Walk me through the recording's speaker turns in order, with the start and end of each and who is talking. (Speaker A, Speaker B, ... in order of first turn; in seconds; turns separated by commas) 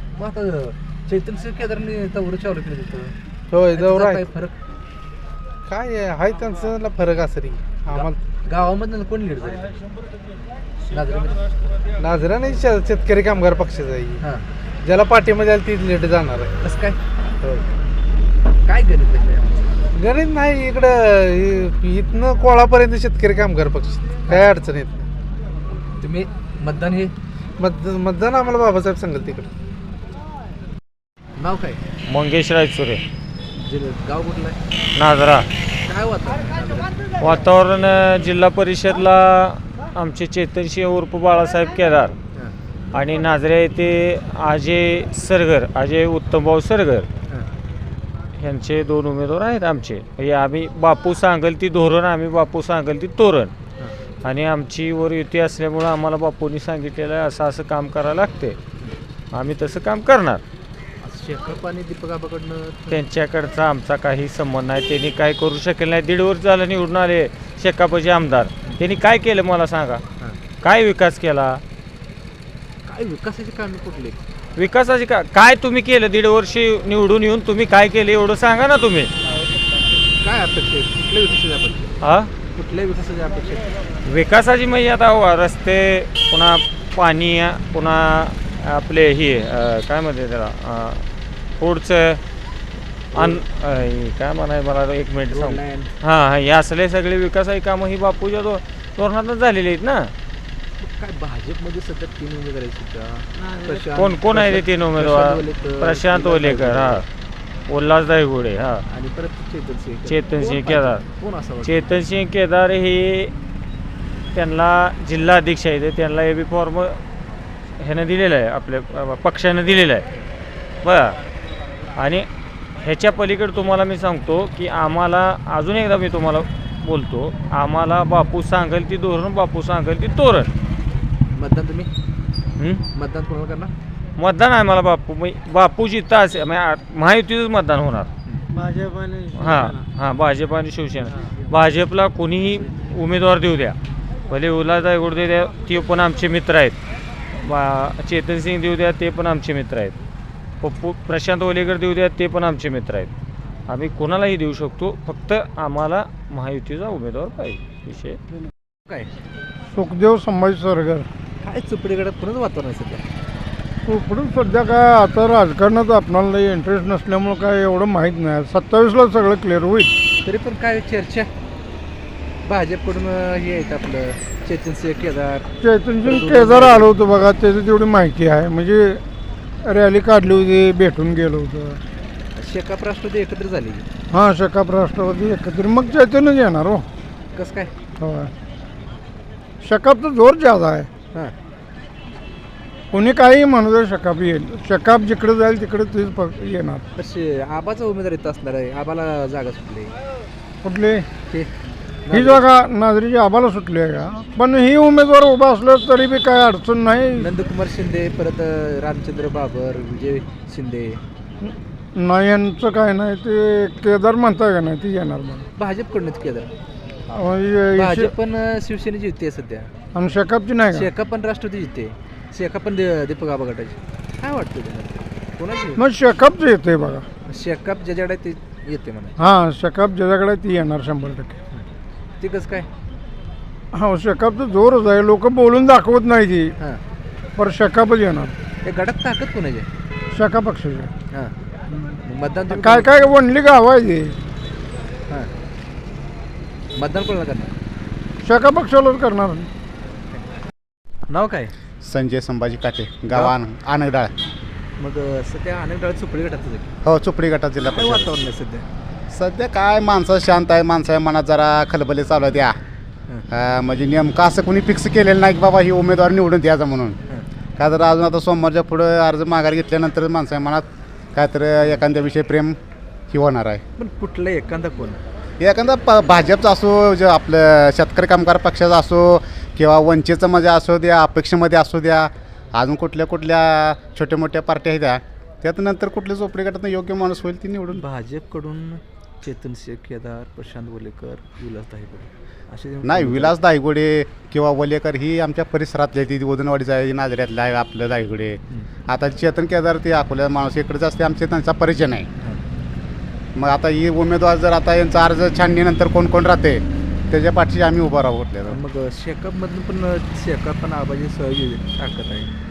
Speaker A: 0.1-3.1, Speaker B: 3.5-4.2, Speaker A: 3.7-4.6, Speaker B: 5.7-8.2, Speaker A: 7.9-9.8, Speaker A: 10.9-11.5, Speaker B: 12.0-14.2, Speaker B: 14.8-16.6, Speaker A: 16.6-17.0, Speaker A: 18.6-19.6, Speaker B: 19.9-25.1, Speaker A: 25.8-27.1, Speaker B: 27.6-29.5, Speaker A: 31.4-31.8, Speaker C: 32.1-33.0, Speaker A: 33.6-34.6, Speaker C: 35.0-35.5, Speaker A: 35.8-37.0, Speaker C: 37.2-42.1, Speaker C: 42.9-47.1, Speaker C: 48.4-53.5, Speaker C: 54.2-58.6, Speaker C: 59.3-60.4, Speaker A: 61.0-63.0, Speaker C: 62.9-70.0, Speaker C: 70.6-71.6, Speaker A: 72.9-74.2, Speaker C: 74.6-79.1, Speaker A: 80.2-81.9, Speaker C: 82.0-82.3, Speaker A: 82.5-83.8, Speaker C: 84.1-91.0, Speaker C: 91.6-92.2, Speaker C: 93.1-100.1, Speaker A: 95.3-95.9, Speaker A: 100.8-107.0, Speaker C: 103.9-107.0, Speaker C: 107.7-108.8, Speaker A: 108.9-112.0, Speaker C: 110.1-111.0, Speaker C: 111.6-113.3, Speaker C: 114.3-117.0, Speaker C: 117.8-120.1, Speaker C: 120.8-121.2, Speaker C: 121.9-122.3, Speaker C: 122.8-130.5, Speaker A: 131.3-131.9, Speaker C: 132.6-132.8, Speaker A: 132.9-133.7, Speaker C: 134.2-138.1, Speaker C: 139.3-143.8, Speaker C: 144.3-146.8, Speaker C: 147.3-150.0, Speaker C: 150.6-153.1, Speaker C: 153.7-158.2, Speaker D: 159.7-161.1, Speaker A: 161.4-163.1, Speaker D: 163.9-169.9, Speaker A: 170.2-171.3, Speaker A: 172.4-175.5, Speaker D: 175.6-179.0, Speaker A: 176.0-176.9, Speaker D: 179.6-181.8, Speaker A: 182.4-183.9, Speaker D: 184.1-186.8, Speaker A: 187.3-187.7, Speaker D: 188.0-188.3, Speaker D: 189.6-190.9, Speaker D: 192.9-196.8, Speaker A: 196.9-199.9, Speaker D: 200.6-201.1, Speaker A: 202.1-202.5, Speaker D: 202.1-207.3, Speaker A: 207.2-211.0, Speaker D: 211.4-215.4, Speaker A: 215.6-216.5, Speaker D: 217.1-218.1, Speaker A: 217.7-219.7, Speaker D: 219.9-220.9, Speaker A: 220.7-225.8, Speaker D: 225.8-227.1, Speaker A: 227.3-229.1, Speaker D: 229.2-231.3, Speaker A: 232.2-232.7, Speaker D: 233.7-236.5, Speaker D: 237.4-238.4, Speaker A: 238.6-239.7, Speaker D: 240.1-240.9, Speaker A: 241.8-242.9, Speaker D: 242.5-244.2, Speaker A: 246.8-247.5, Speaker D: 248.2-249.5, Speaker A: 251.1-251.5, Speaker E: 251.8-254.1, Speaker A: 254.8-256.8, Speaker E: 256.8-258.1, Speaker A: 257.6-258.6, Speaker E: 259.1-262.6, Speaker E: 263.3-267.0, Speaker E: 267.6-272.6, Speaker E: 273.1-273.6, Speaker A: 273.8-275.0, Speaker E: 275.4-287.8, Speaker A: 287.8-293.4, Speaker E: 292.8-302.1, Speaker E: 303.4-308.6, Speaker A: 308.5-312.3